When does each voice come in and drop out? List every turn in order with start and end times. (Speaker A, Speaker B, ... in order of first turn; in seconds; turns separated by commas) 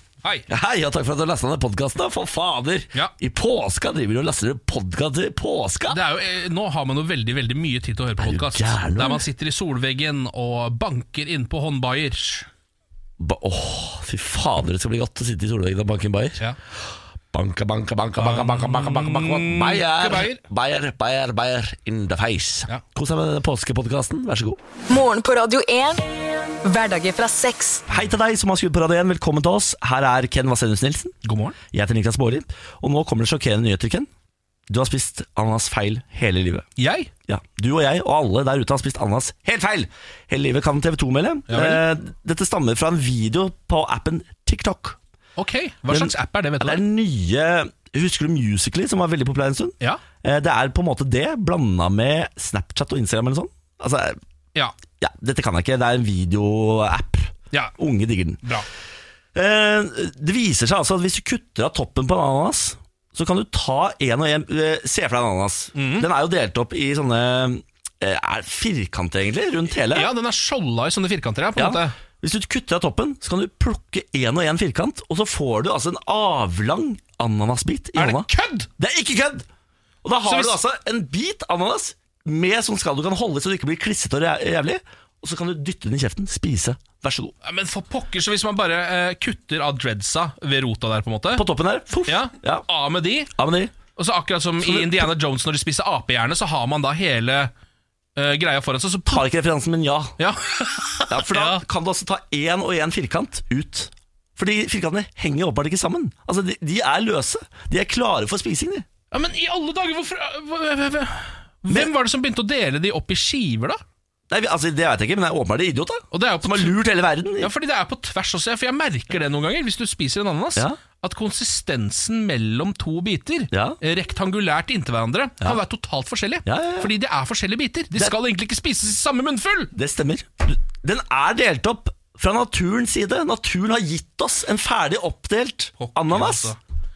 Speaker A: 0.5-6.0, Speaker B: 5.9-12.5, Speaker A: 8.2-9.2, Speaker A: 13.2-16.4, Speaker A: 17.3-24.6, Speaker B: 18.2-20.4, Speaker C: 24.9-26.0, Speaker C: 26.6-27.9, Speaker A: 27.9-31.1, Speaker B: 31.2-31.6, Speaker A: 31.7-34.1, Speaker A: 34.7-36.6, Speaker B: 36.8-37.1, Speaker A: 37.3-45.0, Speaker B: 41.5-41.8, Speaker B: 45.4-46.8, Speaker A: 45.9-54.2, Speaker A: 55.0-58.5, Speaker A: 59.3-70.1, Speaker B: 65.8-66.1, Speaker B: 69.9-72.0, Speaker A: 71.5-78.3, Speaker B: 78.0-78.7, Speaker A: 78.8-79.5, Speaker A: 80.0-87.3, Speaker B: 80.2-80.6, Speaker B: 87.4-91.4, Speaker A: 91.3-92.7, Speaker B: 92.0-93.3, Speaker A: 93.3-93.8, Speaker B: 93.9-97.5, Speaker A: 94.6-95.1, Speaker B: 98.2-99.2, Speaker A: 99.1-100.2, Speaker B: 100.2-101.6, Speaker A: 101.1-108.8, Speaker B: 109.1-113.8, Speaker A: 114.3-117.5, Speaker B: 116.1-116.8, Speaker B: 117.4-129.7, Speaker A: 123.5-123.8, Speaker A: 126.5-126.9, Speaker A: 129.7-136.5, Speaker B: 135.8-136.6